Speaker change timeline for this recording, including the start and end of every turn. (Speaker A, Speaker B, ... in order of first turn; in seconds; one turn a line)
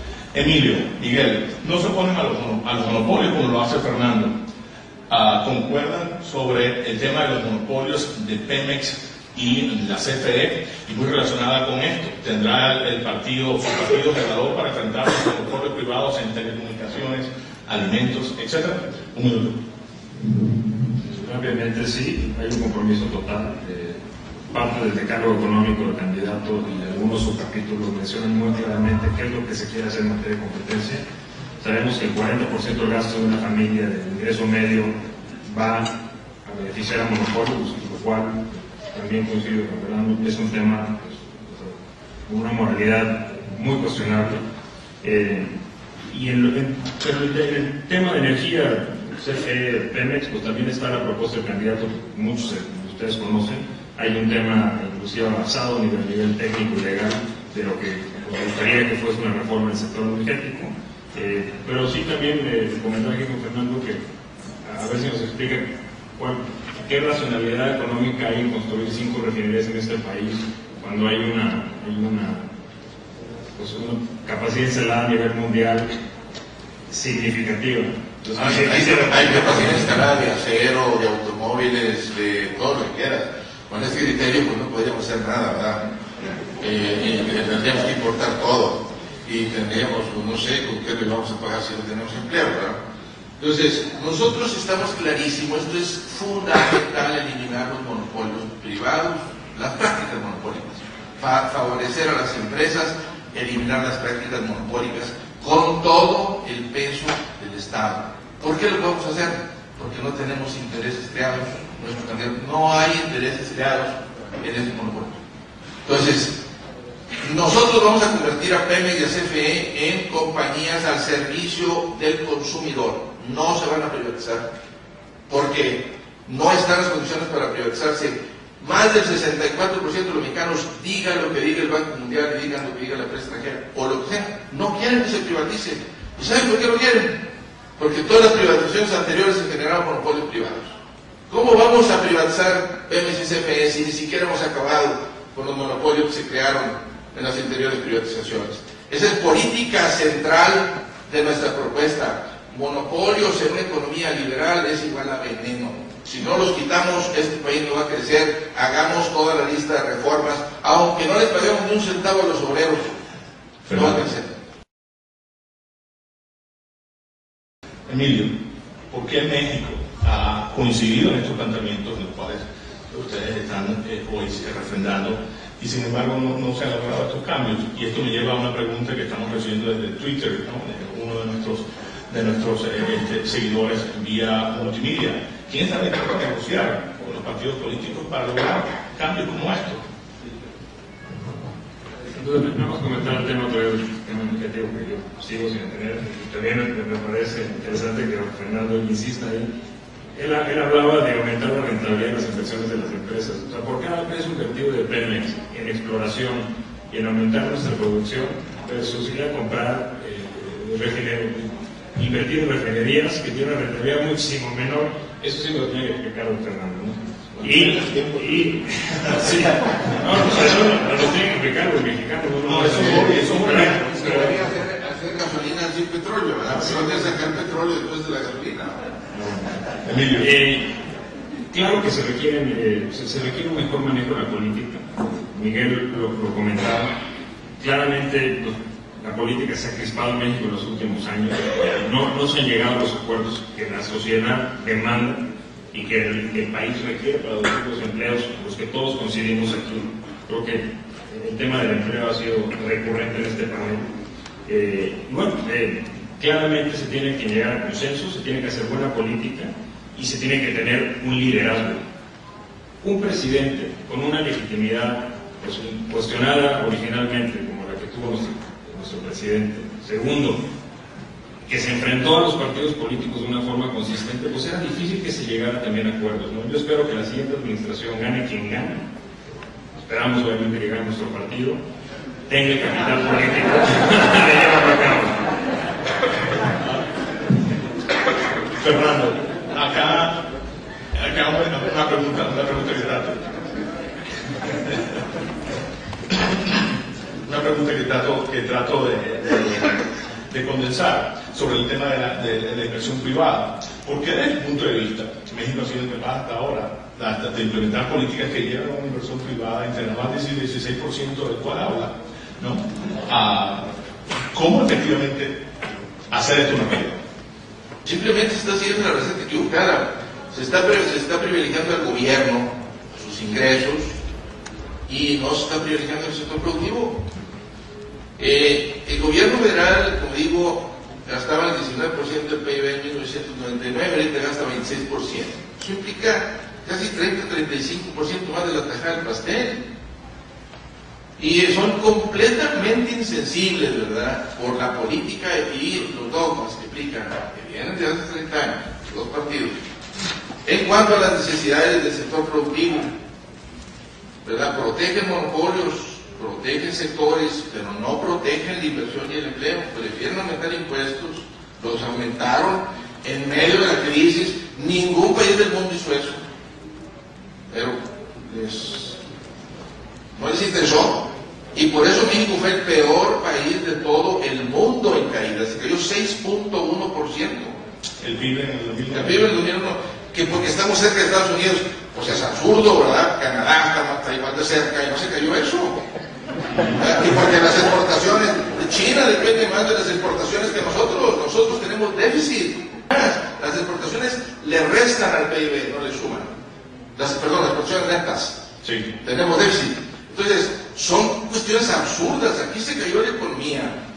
Speaker A: 0.3-4.3
Speaker A: 5.1-19.6
Speaker B: 21.0-31.0
Speaker B: 31.6-35.9
Speaker B: 36.4-44.4
Speaker B: 45.0-45.5
Speaker B: 46.1-64.0
Speaker B: 64.6-72.5
Speaker B: 73.5-75.9
Speaker B: 76.9-79.9
Speaker C: 78.3-85.9
Speaker C: 86.6-92.8
Speaker C: 93.4-115.2
Speaker C: 115.8-116.4
Speaker C: 117.2-124.5
Speaker C: 125.3-137.2
Speaker C: 137.8-140.8
Speaker C: 141.3-163.0
Speaker A: 163.7-164.0
Speaker C: 163.7-164.3
Speaker A: 167.9-168.3
Speaker A: 168.9-189.8
Speaker B: 192.1-199.5
Speaker B: 200.1-224.4
Speaker A: 222.4-223.8
Speaker C: 223.6-228.9
Speaker B: 226.5-226.8
Speaker B: 229.1-229.6
Speaker A: 229.8-230.3
Speaker B: 230.2-230.7
Speaker B: 231.5-236.9
Speaker B: 237.6-253.8
Speaker B: 254.4-261.8
Speaker B: 262.8-270.4
Speaker B: 271.4-278.8
Speaker B: 279.8-281.6
Speaker B: 282.3-285.2
Speaker A: 288.6-290.2
Speaker A: 290.9-293.3
Speaker A: 294.5-295.0
Speaker A: 296.1-296.6
Speaker A: 297.2-313.7
Speaker A: 314.3-315.4
Speaker A: 316.1-317.0
Speaker C: 317.8-324.0
Speaker C: 324.9-327.0
Speaker C: 328.2-339.6
Speaker C: 341.2-349.6
Speaker C: 350.4-352.9
Speaker C: 354.2-366.2
Speaker C: 367.5-369.0
Speaker C: 370.1-377.5
Speaker A: 378.0-379.3
Speaker C: 378.9-385.8
Speaker C: 386.6-396.3
Speaker C: 396.9-398.4
Speaker A: 398.6-398.9
Speaker C: 399.0-403.8